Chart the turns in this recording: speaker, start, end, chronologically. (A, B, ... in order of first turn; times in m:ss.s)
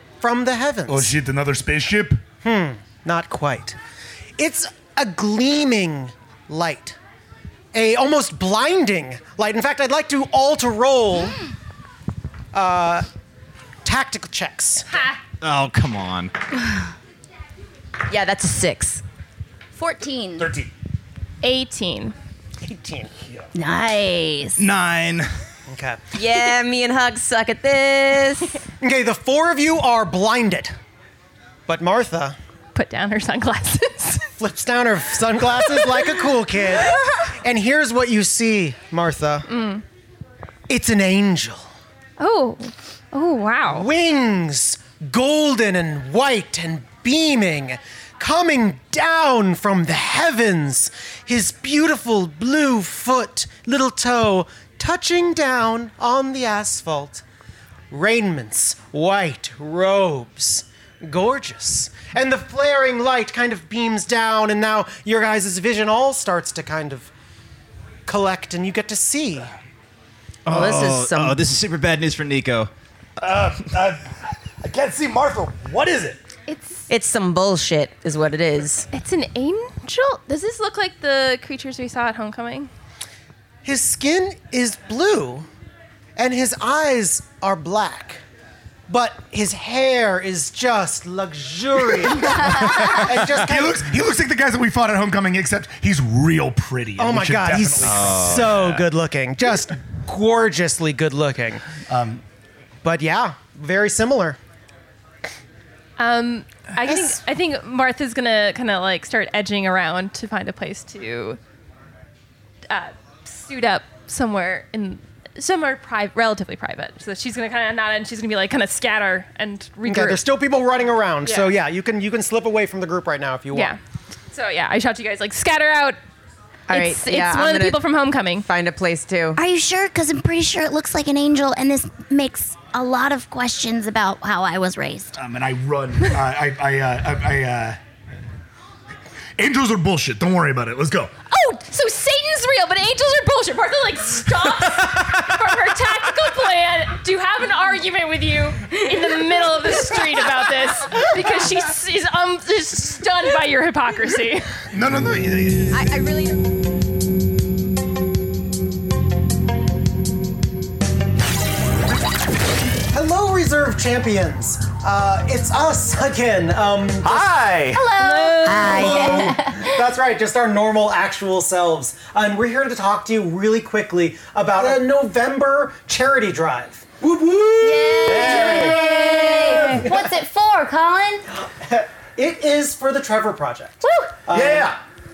0:00.2-0:01.1 A
0:00.9-0:02.2 B
0:02.4-0:03.8 A
0:04.4-0:07.0 A
0:07.7-0:11.4 A
0:12.5-0:13.0 A
0:13.8-0:14.9 A
0:14.9-0:15.2 C
0:15.4-0:16.3 D
0:18.1-0:19.0 E
0:19.7-0:20.5 F
0:20.4-0:20.7 B
0:21.4-0:22.1 C
0:22.6-0:23.1 A
0:23.5-0:24.6 F
0:24.6-0:25.3 D
0:25.7-0:26.0 A
0:26.1-0:28.6 E
0:28.8-0:30.7 A
0:31.7-0:32.4 A
0:32.7-0:34.2 C
0:34.4-0:39.5 A
0:39.5-0:39.8 C
0:40.7-0:41.6 A
0:42.2-0:43.9 C
0:43.6-0:57.2 A
0:57.9-1:07.1 A
1:08.1-1:09.5 A
1:10.4-1:12.7 D
1:10.5-1:11.4 E
1:13.2-1:16.2 B
1:16.5-1:16.9 C
1:16.9-1:18.8 E
1:18.9-1:22.7 C
1:23.6-1:25.4 A
1:26.2-1:28.2 A
1:28.9-1:33.9 A
1:32.7-1:38.8 B
1:37.0-1:41.6 A
1:37.8-1:38.8 D
1:41.9-1:42.2 B
1:42.8-1:44.4 A
1:46.0-1:51.4 C
1:46.9-1:47.1 A
1:52.7-2:00.2 C
1:59.8-2:03.7 A
2:01.2-2:01.5 C
2:03.5-2:03.8 C
2:04.3-2:06.0 C
2:06.7-2:07.8 E
2:06.7-2:08.4 C
2:08.4-2:09.4 E
2:09.4-2:15.2 F
2:15.2-2:17.8 B
2:19.4-2:21.1 B
2:21.3-2:34.5 C
2:34.7-2:35.7 B
2:35.7-2:36.4 E
2:42.9-2:47.4 A
2:47.0-2:47.8 D
2:47.7-2:49.8 F
2:48.0-2:49.3 C
2:48.6-2:59.6 A
2:57.6-3:01.3 F
2:58.0-2:58.9 D
2:59.4-2:59.8 D
3:01.5-3:04.7 A
3:04.3-3:04.8 D